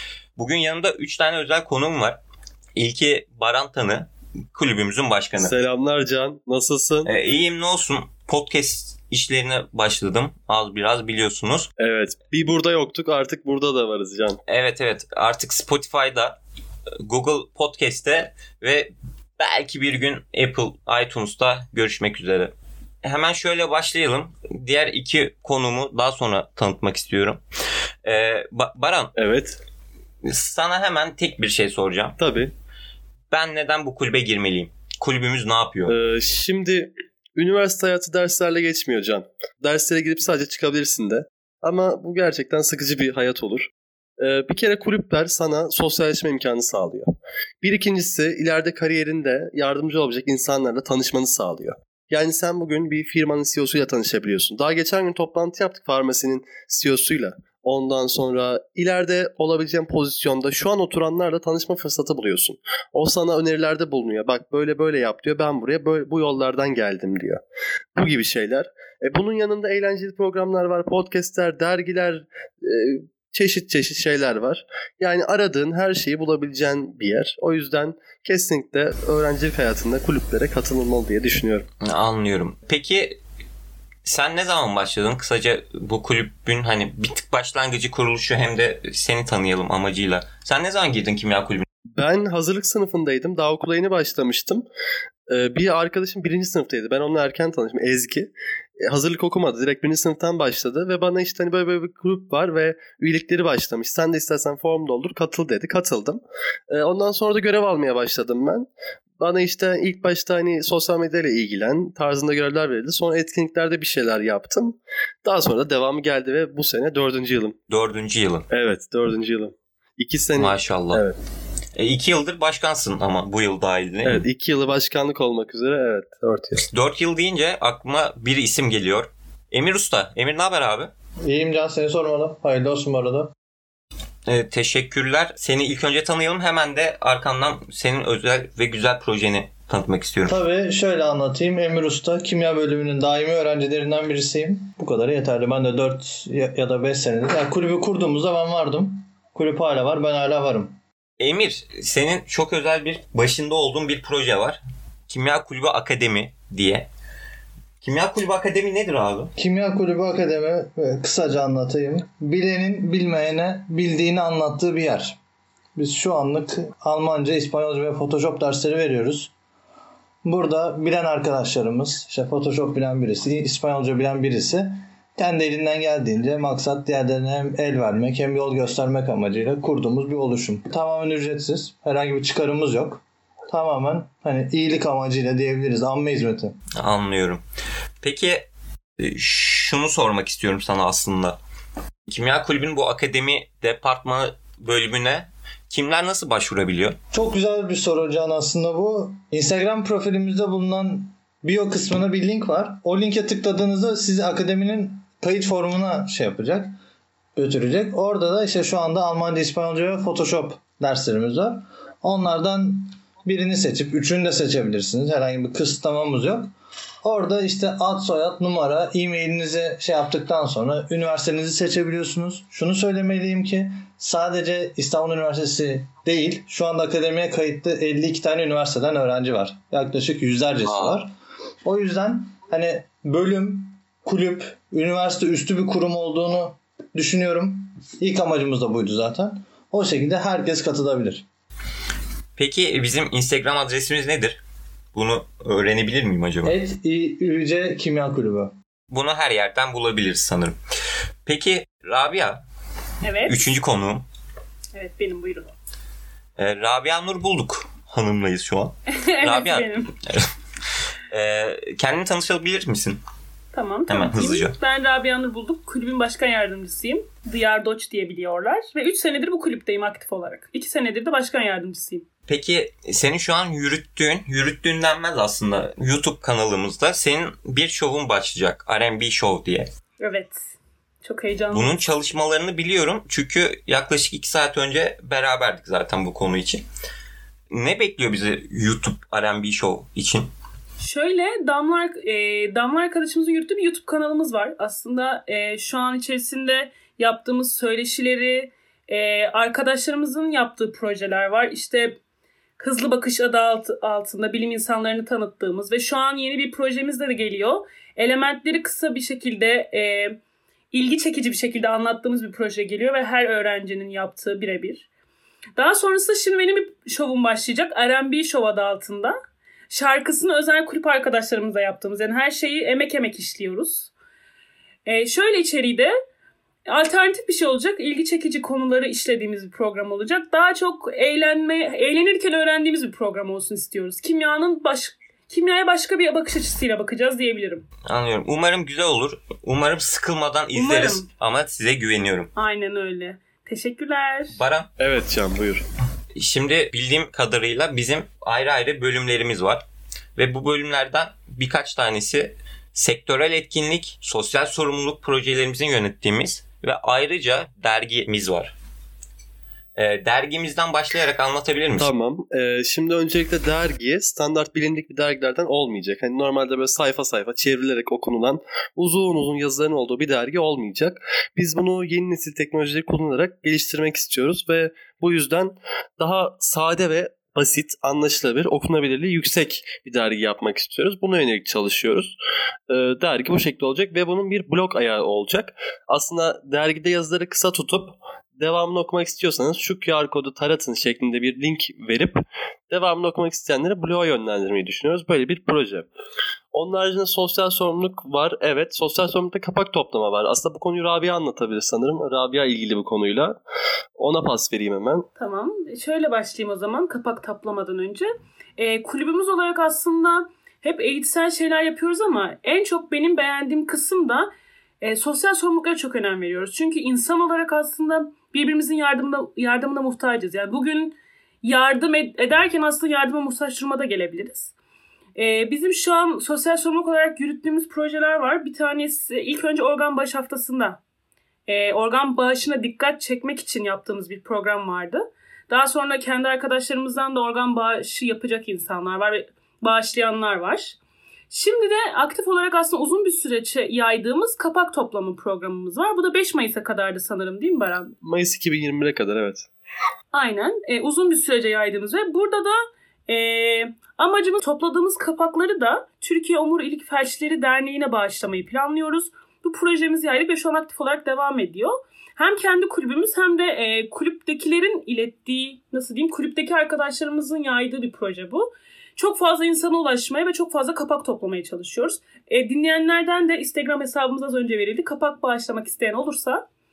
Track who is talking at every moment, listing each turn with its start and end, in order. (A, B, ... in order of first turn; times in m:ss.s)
0:00.4-0:02.2 A
0:02.8-0:05.5 A
0:05.4-0:07.1 B
0:07.0-0:11.7 A
0:11.8-0:14.4 B
0:14.5-0:16.4 A
0:17.0-0:22.5 A
0:23.0-0:27.4 A
0:28.0-0:29.1 A
0:29.2-0:29.6 B
0:30.2-0:32.2 A
0:32.2-0:32.5 B
0:33.3-0:35.9 A
0:35.9-0:47.1 B
0:47.6-1:07.4 B
1:08.0-1:21.6 B
1:21.8-1:23.2 A
1:24.0-1:31.6 A
1:32.0-1:34.6 B
1:35.3-1:38.3 B
1:38.8-1:48.7 B
1:49.2-1:57.6 B
1:57.7-1:58.5 A
1:58.5-2:01.2 B
2:00.4-2:01.0 A
2:01.8-2:04.2 A
2:04.0-2:06.6 B
2:06.7-2:10.9 A
2:11.2-2:13.3 C
2:14.2-2:20.3 A
2:20.3-2:30.8 C
2:31.2-2:36.9 A
2:37.8-2:39.3 A
2:39.4-2:45.2 C
2:45.8-2:49.3 C
2:50.2-3:06.6 C
3:06.8-3:07.4 A
3:08.0-3:08.5 A
3:09.0-3:11.4 A
3:12.1-3:17.0 A
3:17.1-3:26.7 C
3:27.4-3:36.5 C
3:37.0-3:51.1 C
3:51.6-4:01.2 C
4:02.4-4:04.4 A
4:04.9-4:06.6 A
4:06.4-4:08.5 C
4:08.9-4:10.6 A
4:11.2-4:12.4 A
4:13.0-4:13.4 D
4:13.2-4:14.0 A
4:14.7-4:15.5 D
4:16.4-4:20.3 A
4:18.9-4:19.9 D
4:21.1-4:23.0 A
4:23.5-4:32.0 D
4:23.9-4:24.6 A
4:32.3-4:39.7 A
4:40.0-4:40.4 D
4:41.0-4:41.7 D
4:41.5-4:46.6 A
4:47.5-4:50.3 A
4:50.8-5:02.0 D
5:02.6-5:10.2 D
5:10.7-5:14.9 D
5:15.6-5:19.1 D
5:19.7-5:23.9 D
5:24.8-5:25.9 D
5:26.7-5:37.7 D
5:37.8-5:42.3 A
5:40.5-5:41.0 D
5:42.4-5:44.4 D
5:44.3-5:44.7 A
5:44.8-5:45.6 B
5:46.2-5:49.6 A
5:50.2-5:58.5 A
5:59.8-6:01.9 A
6:01.8-6:22.2 B
6:22.7-6:32.2 B
6:32.7-6:35.9 B
6:36.5-6:43.4 B
6:44.0-6:45.1 B
6:45.2-6:54.3 D
6:54.8-7:04.5 D
7:05.1-7:10.8 D
7:11.5-7:20.8 D
7:21.3-7:28.0 D
7:28.0-7:29.5 B
7:30.1-7:32.5 D
7:33.1-7:56.4 D